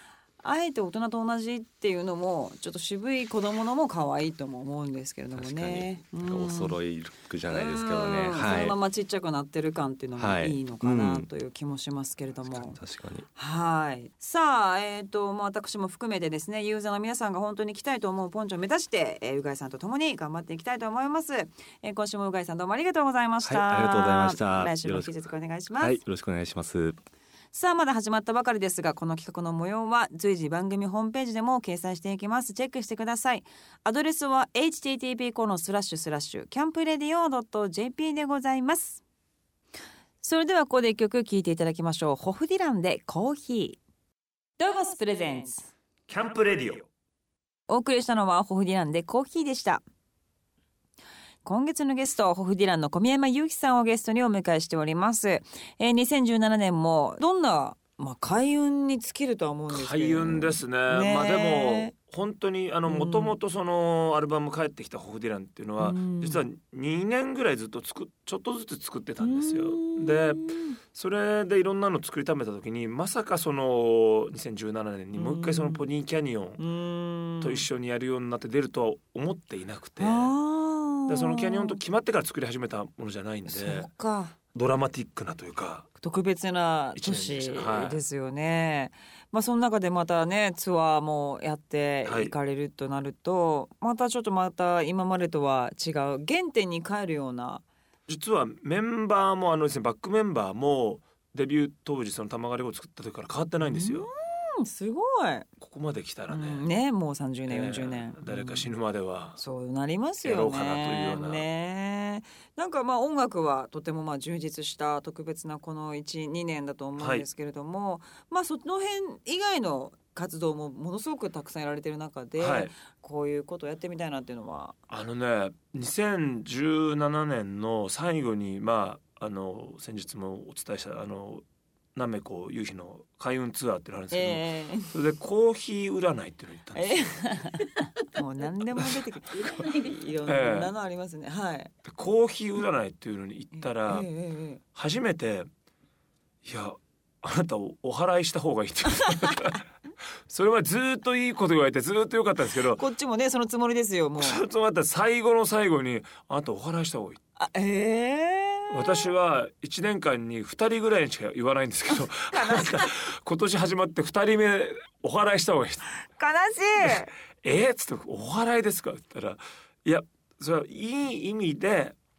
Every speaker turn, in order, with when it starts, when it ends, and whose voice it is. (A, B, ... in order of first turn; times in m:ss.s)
0:00.4-0:06.8 A
0:05.3-0:08.8 B
0:07.5-0:12.8 A
0:10.2-0:11.3 B
0:12.4-0:13.2 B
0:13.4-0:26.0 A
0:23.4-0:25.1 B
0:25.8-0:27.0 B
0:27.5-0:39.0 A
0:40.2-0:43.8 A
0:44.6-0:45.7 A
0:46.1-0:46.9 C
0:47.7-0:49.8 A
0:51.4-1:01.9 A
0:59.7-1:16.6 C
1:02.9-1:03.4 A
1:05.8-1:06.4 A
1:09.2-1:10.8 A
1:15.1-1:15.8 A
1:16.6-1:17.6 A
1:17.4-1:20.3 C
1:20.0-1:21.8 A
1:21.1-1:23.9 C
1:23.4-1:24.4 A
1:24.5-1:25.9 C
1:26.0-1:37.6 A
1:26.9-1:28.0 C
1:32.0-1:32.3 C
1:38.1-1:44.1 C
1:43.6-1:45.5 A
1:45.6-1:46.6 C
1:46.3-1:48.7 A
1:47.5-1:49.4 C
1:49.4-2:04.8 A
1:50.2-1:51.4 C
1:57.0-1:57.2 C
2:02.4-2:02.7 C
2:04.9-2:11.4 C
2:11.9-2:17.2 C
2:14.1-2:14.9 A
2:16.7-2:21.7 A
2:18.8-2:20.7 C
2:21.8-2:24.1 C
2:23.5-2:24.6 A
2:24.7-2:25.5 C
2:26.4-2:29.6 C
2:28.9-2:29.5 A
2:30.3-2:32.8 C
2:32.7-2:34.4 A
2:34.2-2:37.2 C
2:37.4-2:39.1 A
2:38.7-2:45.9 C
2:41.9-2:42.9 A
2:46.0-2:47.1 A
2:46.8-2:52.0 C